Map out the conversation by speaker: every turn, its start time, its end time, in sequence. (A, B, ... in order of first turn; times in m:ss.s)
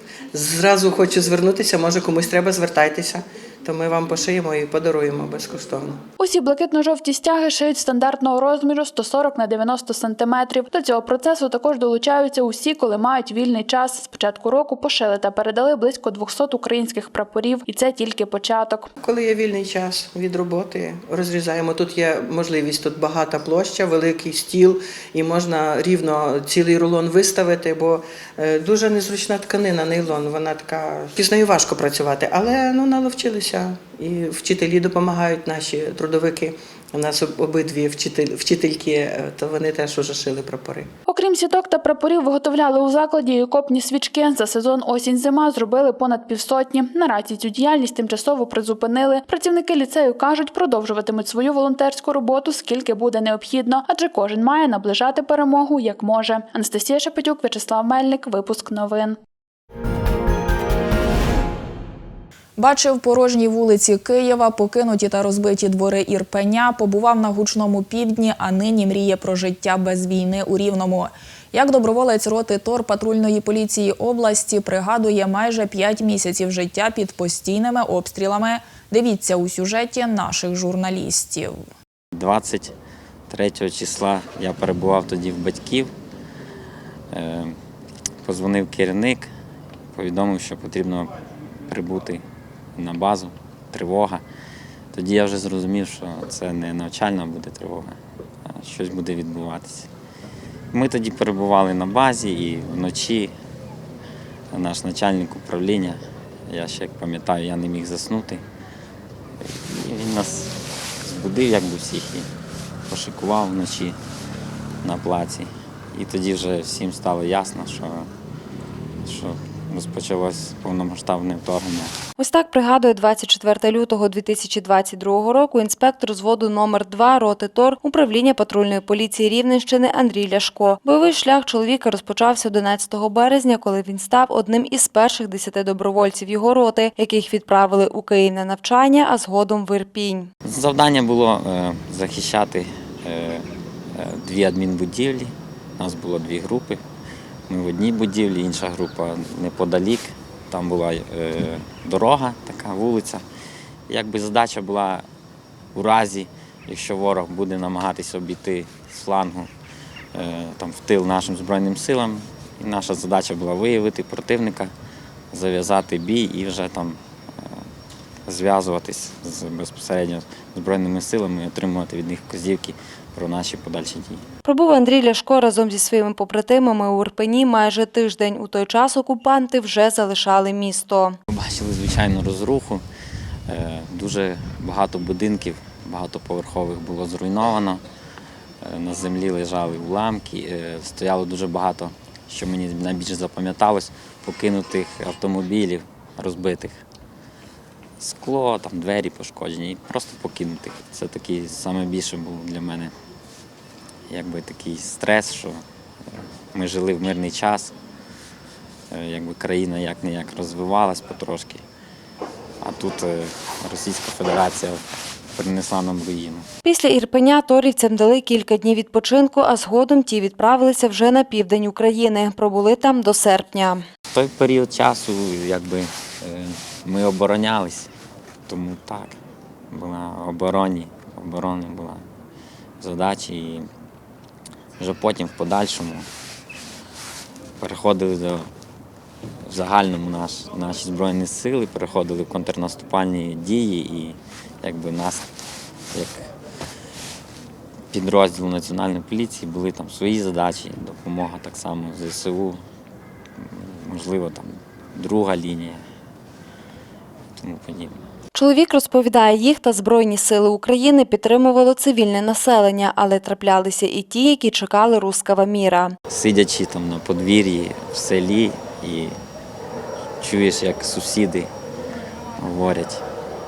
0:00.3-0:06.0 A
0:06.2-0:18.9 B
0:19.0-0:40.9 A
0:41.0-0:59.2 B
1:02.6-1:21.6 C
1:22.1-1:22.7 D
1:23.3-1:25.9 D
1:27.1-1:27.6 D
1:28.2-1:29.3 D
1:29.9-1:31.1 D
1:31.7-1:32.2 D
1:32.8-1:34.2 D
1:34.9-1:39.9 D
1:40.7-1:43.3 D
1:44.5-1:48.4 D
1:49.4-1:52.2 D
1:52.9-1:54.0 D
1:54.8-1:58.1 D
1:59.0-2:01.9 D
2:02.2-2:20.3 E
2:20.5-2:26.8 D
2:27.5-2:33.2 D
2:33.9-2:35.0 D
2:35.7-2:39.5 D
2:40.1-2:44.7 D
2:45.3-2:47.6 D
2:48.3-2:54.2 D
2:54.4-3:01.2 E
3:01.3-3:02.8 D
3:03.5-3:07.8 D
3:08.6-3:16.8 D
3:18.0-3:22.9 D
3:24.1-3:25.6 D
3:26.5-3:27.7 D
3:28.9-3:31.6 D
3:32.6-3:34.8 D
3:35.4-3:36.5 D
3:36.6-3:43.8 E
3:44.1-3:47.9 D
3:48.5-3:49.2 D
3:49.7-3:52.0 D
3:52.8-3:53.7 D
3:54.8-3:56.1 D
3:57.6-3:58.5 D
3:59.4-4:05.3 D
4:05.9-4:06.3 D
4:07.9-4:12.6 D
4:13.4-4:15.8 D
4:17.4-4:18.0 D
4:18.3-4:25.9 E
4:26.1-4:29.2 D
4:30.2-4:31.5 D
4:32.4-4:33.0 D